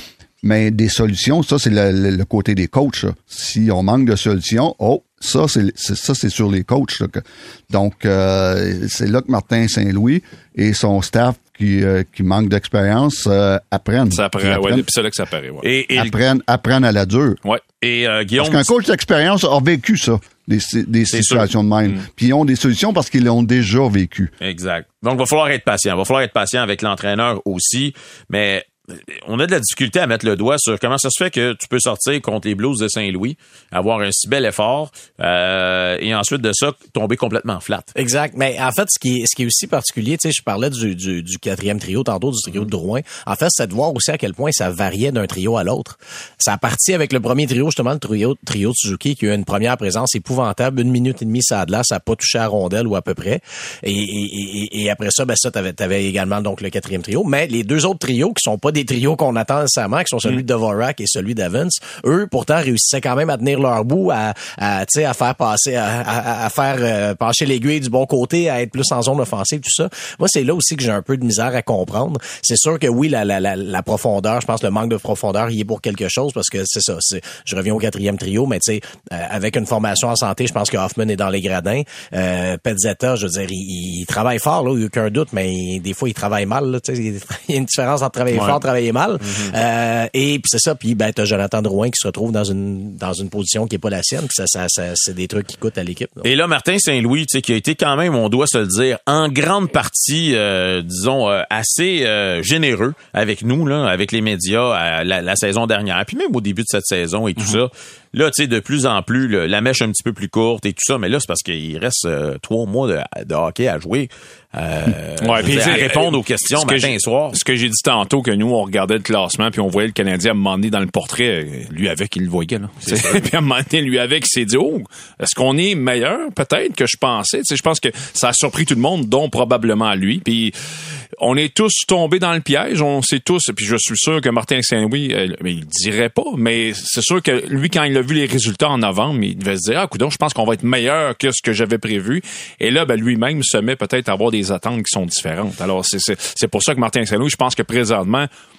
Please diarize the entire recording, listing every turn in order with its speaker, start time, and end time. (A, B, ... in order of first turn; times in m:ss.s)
0:00.4-0:14.9 A
0:14.1-0:15.6 B
0:15.6-0:16.2 C
0:15.9-0:17.4 A
0:17.8-0:18.7 C
0:18.4-0:24.3 A
0:21.1-0:21.5 C
0:24.4-0:37.9 C
0:38.0-1:36.3 D
1:28.3-1:28.6 B
1:29.2-1:29.5 C
1:36.2-1:57.4 C
1:55.2-2:10.5 B
2:02.8-2:03.2 C
2:11.2-2:28.3 B